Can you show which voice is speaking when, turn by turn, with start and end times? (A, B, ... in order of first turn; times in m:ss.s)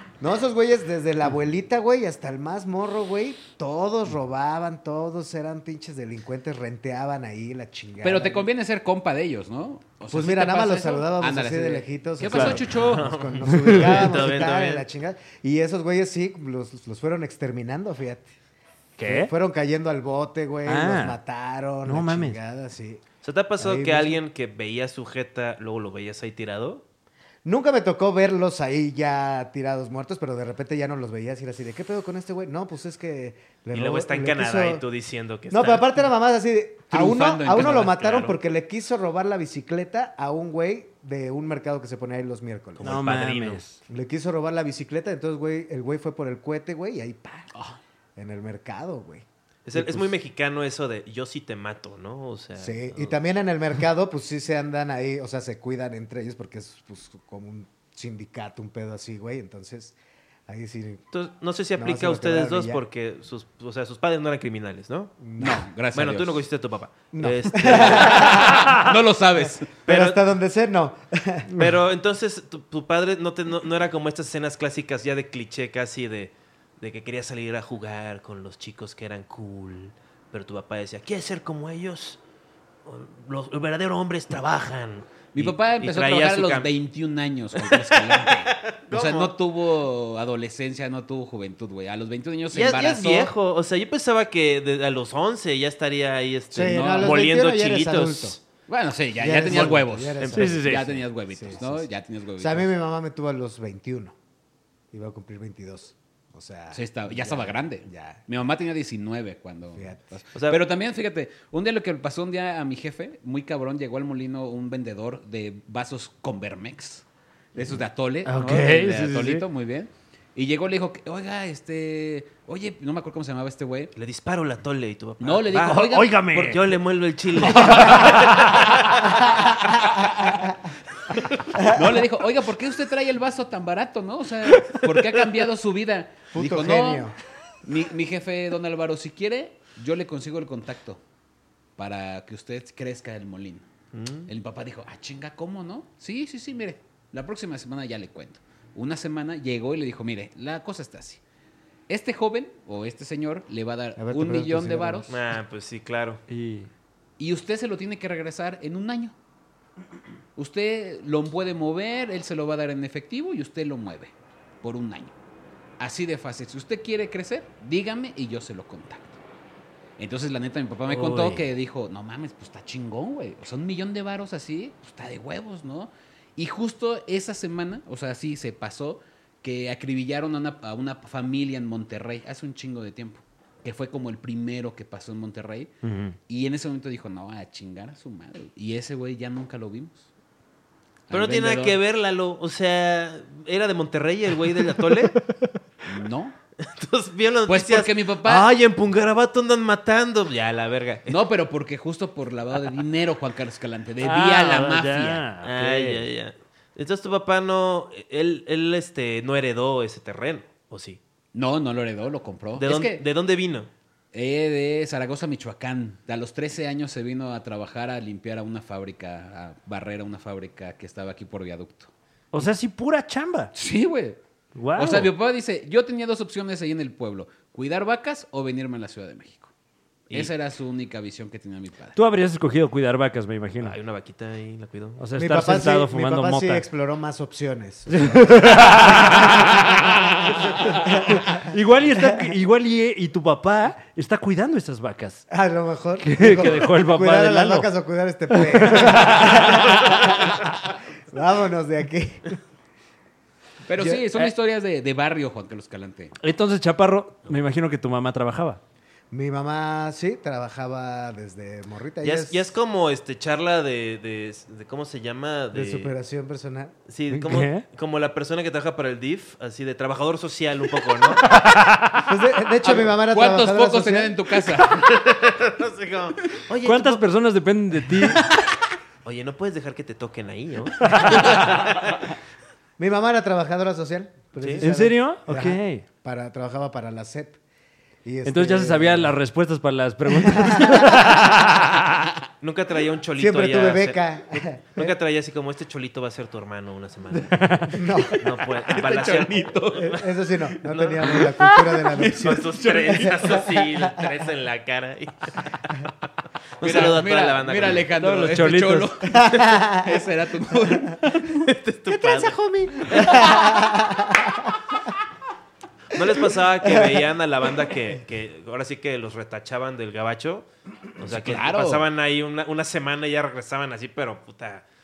0:00.2-0:08.5 A
0:08.0-0:13.1 B
0:10.1-0:18.3 A
0:12.3-0:12.6 C
0:12.8-0:14.8 D
0:13.5-0:14.1 C
0:19.0-0:19.3 C
0:19.0-0:23.0 A
0:20.6-0:21.2 C
0:21.8-0:22.4 C
0:23.2-0:26.8 D
0:23.6-0:24.2 A
0:27.4-0:34.8 A
0:33.7-0:35.9 D
0:35.5-0:43.0 A
0:36.9-0:38.0 B
0:37.6-0:38.3 D
0:42.8-0:43.6 D
0:42.8-0:43.8 C
0:43.9-0:47.5 A
0:48.2-0:50.1 A
0:49.6-0:53.2 D
0:52.6-1:00.0 A
1:00.5-1:01.0 A
1:01.1-1:05.1 D
1:01.8-1:02.8 A
1:05.2-1:05.6 A
1:05.4-1:06.4 B
1:05.9-1:08.5 D
1:07.1-1:08.7 A
1:07.7-1:09.7 B
1:09.8-1:10.2 D
1:09.9-1:11.6 A
1:11.5-1:22.2 D
1:22.8-1:26.7 D
1:25.3-1:33.3 B
1:27.6-1:29.3 D
1:32.5-1:38.4 D
1:36.5-1:38.4 A
1:36.6-1:37.1 B
1:38.7-1:42.7 B
1:39.2-1:44.1 A
1:40.2-1:40.5 D
1:40.3-1:41.0 C
1:44.9-1:48.2 A
1:46.7-2:03.9 B
1:49.7-1:50.2 A
1:50.3-1:50.6 D
1:58.2-1:59.4 C
2:04.0-2:09.2 D
2:05.2-2:06.1 B
2:05.6-2:06.7 C
2:07.4-2:08.8 C
2:11.6-2:17.1 B
2:14.5-2:15.2 C
2:16.3-2:17.1 A
2:17.6-2:21.0 B
2:21.8-2:23.7 B
2:23.9-2:24.3 D
2:24.3-2:31.2 B
2:31.9-2:35.1 B
2:34.0-2:35.1 A
2:35.1-2:36.2 D
2:36.3-2:36.7 C
2:37.2-2:39.1 B
2:40.4-2:45.2 B
2:45.8-2:49.2 B
2:50.0-3:05.7 B
2:50.9-2:51.4 C
3:05.8-3:06.2 C
3:06.3-3:10.1 B
3:11.1-3:11.8 B
3:11.1-3:15.2 D
3:15.8-3:16.4 B
3:16.6-3:21.2 D
3:17.5-3:18.5 B
3:21.1-3:25.2 B
3:24.0-3:26.0 C
3:25.4-3:31.0 D
3:31.3-3:33.0 B
3:32.6-3:33.7 D
3:34.1-3:41.9 B
3:42.3-3:43.5 C
3:43.5-3:44.2 B
3:44.5-3:45.1 C
3:44.7-3:49.5 B
3:50.1-3:52.0 B
3:52.0-3:53.7 C
3:53.6-3:55.0 D
3:55.0-3:56.6 C
3:55.2-4:01.4 A
3:57.9-4:05.3 C
4:05.3-4:10.5 A
4:06.0-4:07.7 C
4:08.3-4:09.9 C
4:11.1-4:12.3 A
4:13.6-4:16.1 B
4:13.8-4:14.0 A
4:16.2-4:18.6 C
4:19.1-4:22.5 A
4:22.0-4:25.9 D
4:25.5-4:26.7 A
4:26.9-4:31.2 D
4:27.1-4:27.6 C
4:31.2-4:32.0 C
4:32.0-4:34.2 A
4:32.6-4:34.8 B
4:34.7-4:37.0 D
4:36.6-4:38.4 C
4:39.0-4:42.1 D
4:40.8-4:41.5 C
4:42.8-4:47.4 A
4:44.4-4:44.7 D
4:44.6-4:45.8 C
4:48.0-4:49.1 A
4:48.2-4:52.1 C
4:50.1-4:51.4 A
4:52.4-5:01.2 D
4:53.2-4:54.9 A
4:57.2-4:58.0 C
4:57.7-4:58.3 A
4:58.5-4:59.9 B
4:59.8-5:04.0 A
5:01.0-5:03.4 B
5:02.1-5:05.9 D
5:06.6-5:07.9 D
5:06.6-5:11.5 B
5:07.9-5:09.0 C
5:09.1-5:10.0 A
5:10.7-5:11.0 A
5:11.2-5:13.6 D
5:11.9-5:14.5 A
5:15.9-5:24.6 D
5:16.6-5:17.1 A
5:21.0-5:21.8 B